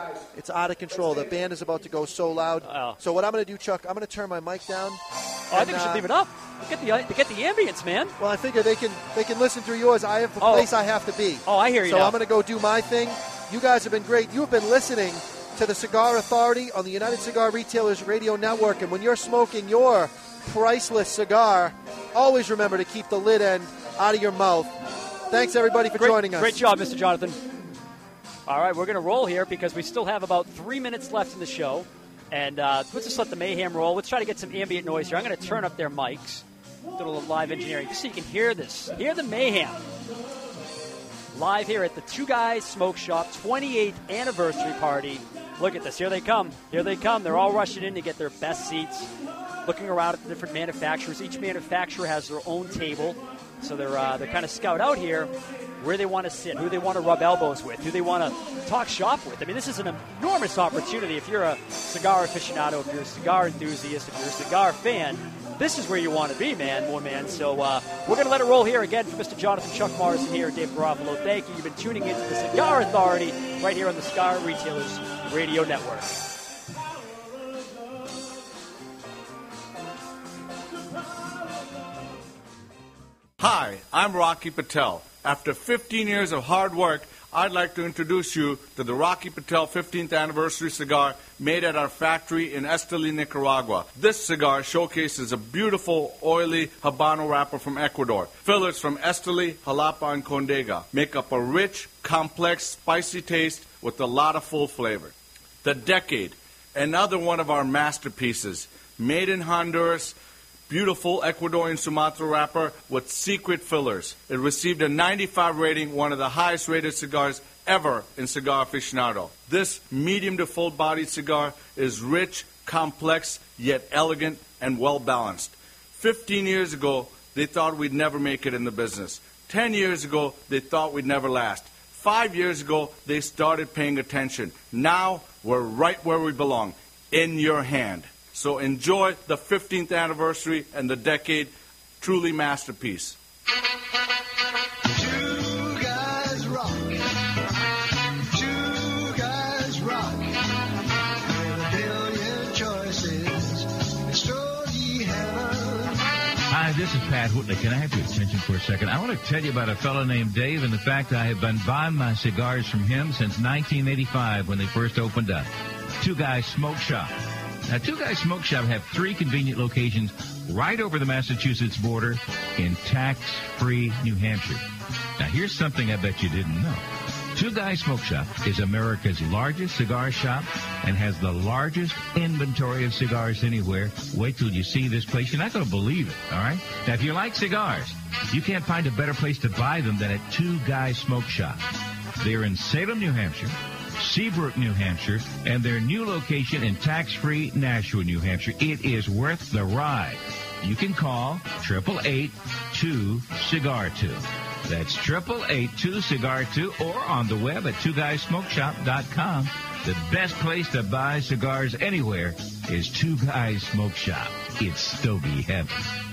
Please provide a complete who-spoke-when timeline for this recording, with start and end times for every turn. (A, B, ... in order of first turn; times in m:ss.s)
0:00.3-0:06.1 A
0:02.6-0:03.0 B
0:05.5-0:08.2 B
0:08.2-0:24.7 A
0:10.4-0:10.7 B
0:11.4-0:12.2 B
0:25.3-0:26.6 A
0:26.0-0:27.4 B
0:28.5-0:36.4 B
0:37.0-0:39.8 B
0:41.3-0:49.1 B
0:49.6-1:16.2 B
1:23.4-1:45.1 C
1:45.6-1:50.1 C
1:50.7-2:23.2 C
2:24.9-2:27.0 D
2:28.3-2:30.4 D
2:31.2-2:36.0 D
2:36.5-2:47.1 E
2:47.7-2:54.6 E
2:55.2-2:56.8 E
2:57.3-3:11.6 E
3:12.2-3:35.8 E